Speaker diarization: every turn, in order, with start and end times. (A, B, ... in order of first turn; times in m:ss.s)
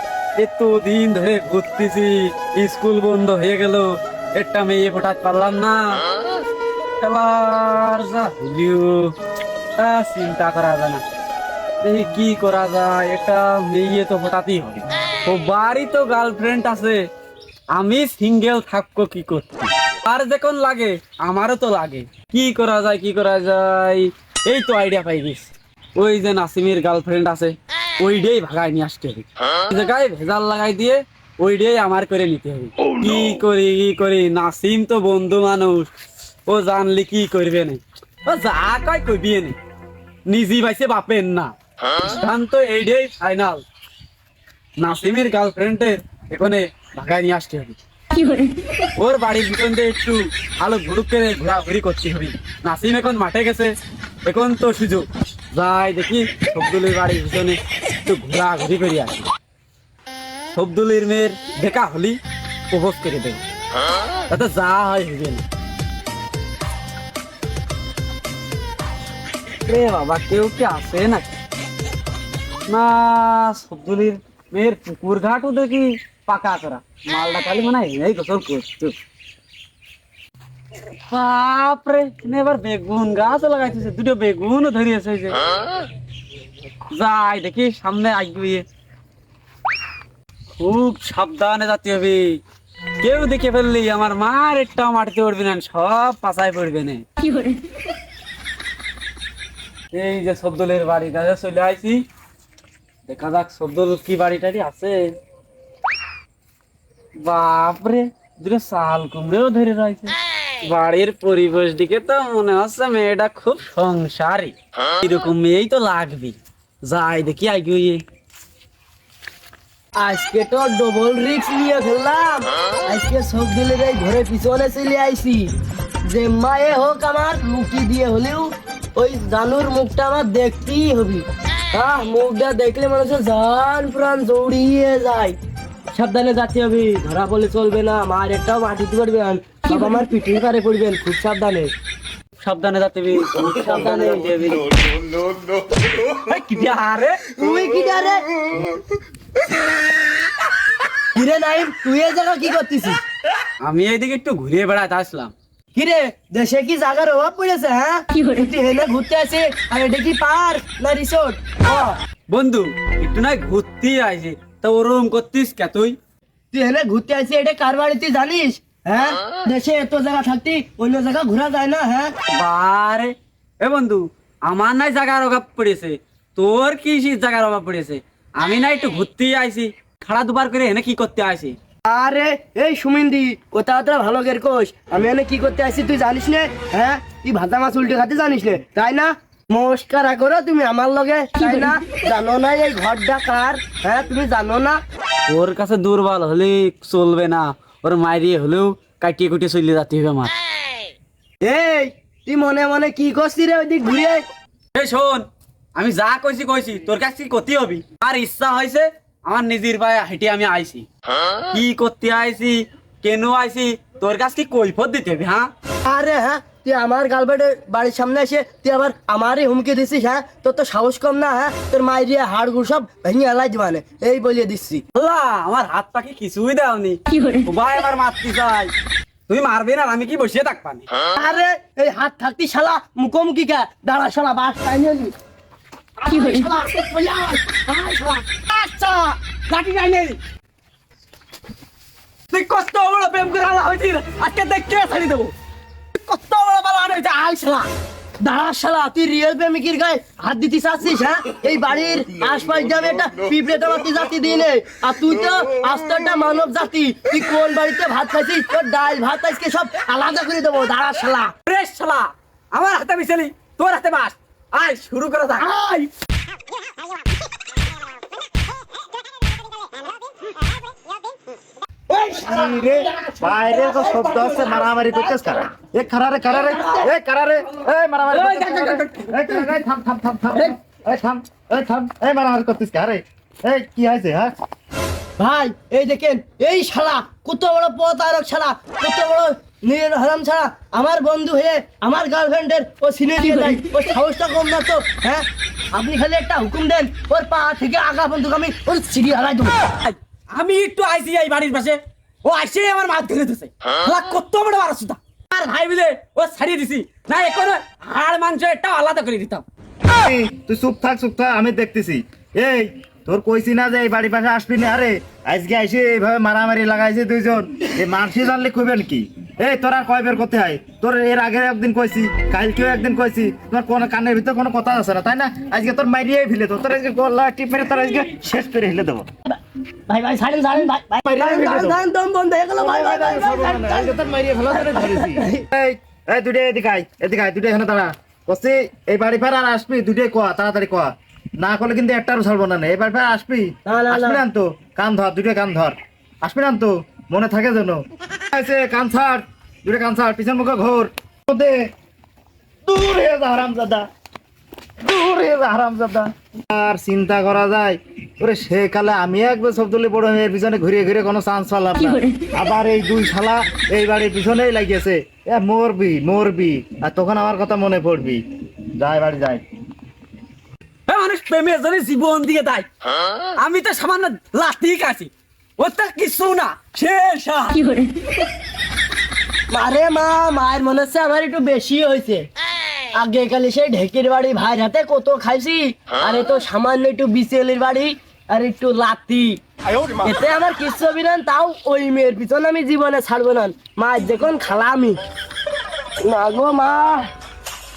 0:00.4-0:06.0 A
0:07.0-0:09.1 A
0:09.8-0:11.0 A
0:11.8-0:17.0 A
0:17.7-0:35.9 A
0:36.5-0:39.6 A
0:40.3-0:43.6 A
0:44.8-0:47.8 A
0:49.0-0:53.7 A
0:54.3-0:59.3 A
1:00.5-1:02.2 A
1:02.7-1:03.4 A
1:04.3-1:05.4 A
1:09.6-1:11.3 A
1:12.7-1:19.0 A
1:21.1-1:25.4 A
1:26.9-1:28.6 A
1:30.6-1:32.4 A
1:33.0-1:37.0 A
1:39.9-1:42.0 A
1:43.1-1:45.1 A
1:47.2-1:58.0 A
2:00.0-2:05.5 B
2:06.0-2:15.4 B
2:15.9-2:21.7 B
2:22.4-2:25.0 A
2:23.4-2:24.3 B
2:26.0-2:27.2 A
2:27.3-2:28.3 B
2:31.2-2:33.0 B
2:33.6-2:35.3 A
2:35.8-2:42.0 B
2:42.3-2:46.0 A
2:46.5-2:52.1 B
2:52.3-3:01.6 A
3:01.9-3:14.8 B
3:15.3-3:20.3 A
3:21.4-3:24.2 B
3:24.7-3:25.2 A
3:25.8-3:30.9 A
3:31.5-3:35.5 A
3:35.8-3:44.8 B
3:45.0-3:48.7 A
3:49.3-3:50.9 A
3:51.2-3:55.1 B
3:56.0-3:59.4 B
3:58.6-4:00.1 A
4:02.3-4:05.3 A
4:06.0-4:07.7 A
4:08.2-4:21.3 B
4:21.4-4:25.6 A
4:25.6-4:25.9 B
4:31.9-4:35.4 B
4:32.2-4:44.3 C
4:36.4-4:36.9 B
4:38.1-4:39.5 A
4:45.2-4:59.6 B
4:59.8-5:09.4 A
5:09.9-5:29.1 C
5:29.9-5:34.0 B
5:31.0-5:31.8 C
5:32.6-5:51.6 C
5:34.5-5:35.4 B
5:43.7-5:44.2 B
5:52.7-5:53.8 C
5:54.8-6:08.2 C
6:08.8-6:09.4 C
6:10.9-6:12.7 A
6:13.4-6:17.8 A
6:19.5-6:22.3 B
6:23.0-6:35.0 B
6:36.0-6:37.1 B